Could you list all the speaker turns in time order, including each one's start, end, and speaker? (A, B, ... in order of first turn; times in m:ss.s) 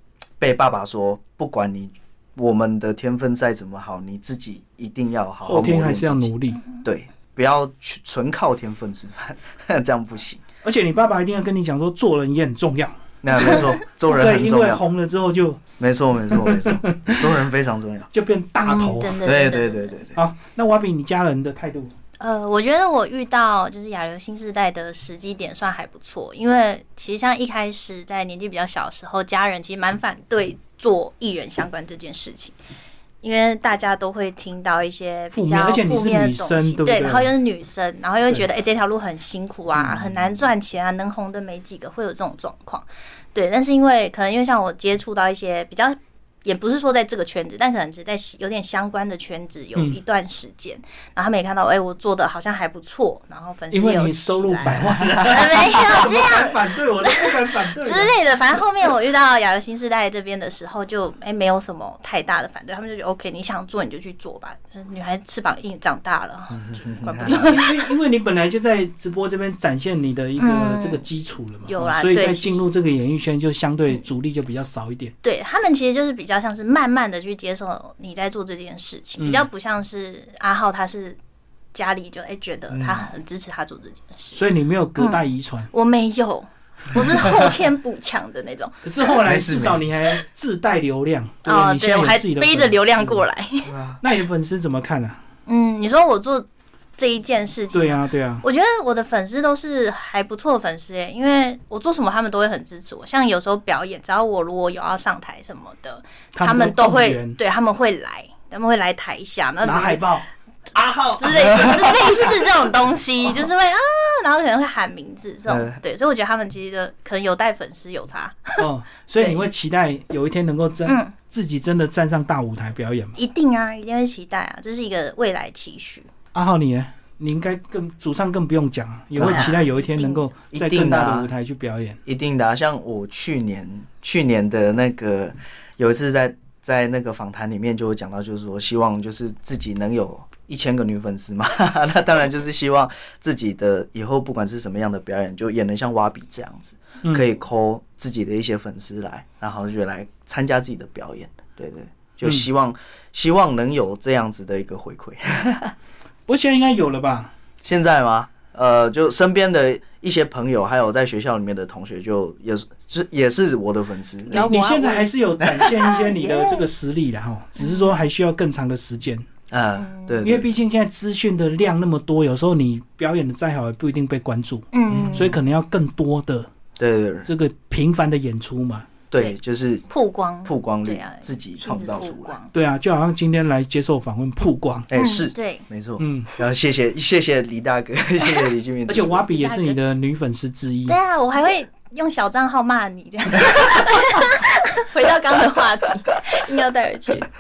0:00.4-0:10.4 A
0:05.4-0:06.6 B
0:10.6-0:15.6 B
0:13.2-0:14.8 A
0:15.8-0:18.1 A
0:16.3-0:17.2 B
0:18.1-0:19.2 B
0:18.6-0:19.9 C
0:19.2-0:20.2 A
0:20.2-0:21.9 B
0:22.2-0:32.6 C
0:33.2-1:07.9 C
0:35.3-0:37.3 B
0:39.9-0:40.2 A
0:53.7-0:58.1 B
1:06.6-1:07.6 A
1:07.2-1:15.1 B
1:10.4-1:11.0 C
1:11.7-1:12.7 C
1:15.2-1:21.2 C
1:19.2-1:19.5 B
1:21.7-1:24.4 C
1:22.7-1:23.1 A
1:24.4-1:25.7 B
1:25.0-1:29.1 C
1:28.8-1:33.2 B
1:29.2-1:29.9 A
1:31.5-1:33.7 C
1:33.6-1:34.0 A
1:34.0-1:35.2 B
1:35.5-1:50.1 C
1:37.7-1:38.4 B
1:46.3-1:47.4 B
1:49.6-1:50.2 B
1:50.7-1:52.6 A
1:51.1-1:58.7 C
1:55.5-1:55.8 A
1:58.6-2:03.2 B
2:00.9-2:01.1 C
2:03.2-2:06.1 C
2:06.3-2:12.0 B
2:09.2-2:09.6 A
2:09.2-2:10.3 C
2:10.5-2:11.3 A
2:12.1-2:35.7 A
2:36.3-2:37.3 B
2:37.6-2:44.5 A
2:44.3-2:45.1 C
2:44.3-2:49.3 B
2:45.4-2:46.1 A
2:45.8-2:46.3 C
2:47.6-2:47.9 C
2:49.5-2:50.5 A
2:49.8-2:50.2 C
2:50.2-2:56.5 B
2:54.7-2:55.3 C
2:54.9-2:55.4 A
2:56.8-2:57.3 A
2:57.3-2:58.9 B
2:59.1-2:59.9 A
2:59.9-3:02.5 C
3:00.4-3:02.4 A
3:02.5-3:04.9 B
3:04.9-3:09.3 A
3:04.9-3:05.6 C
3:06.0-3:06.3 B
3:08.9-3:11.0 B
3:09.3-3:09.8 C
3:10.9-3:17.3 C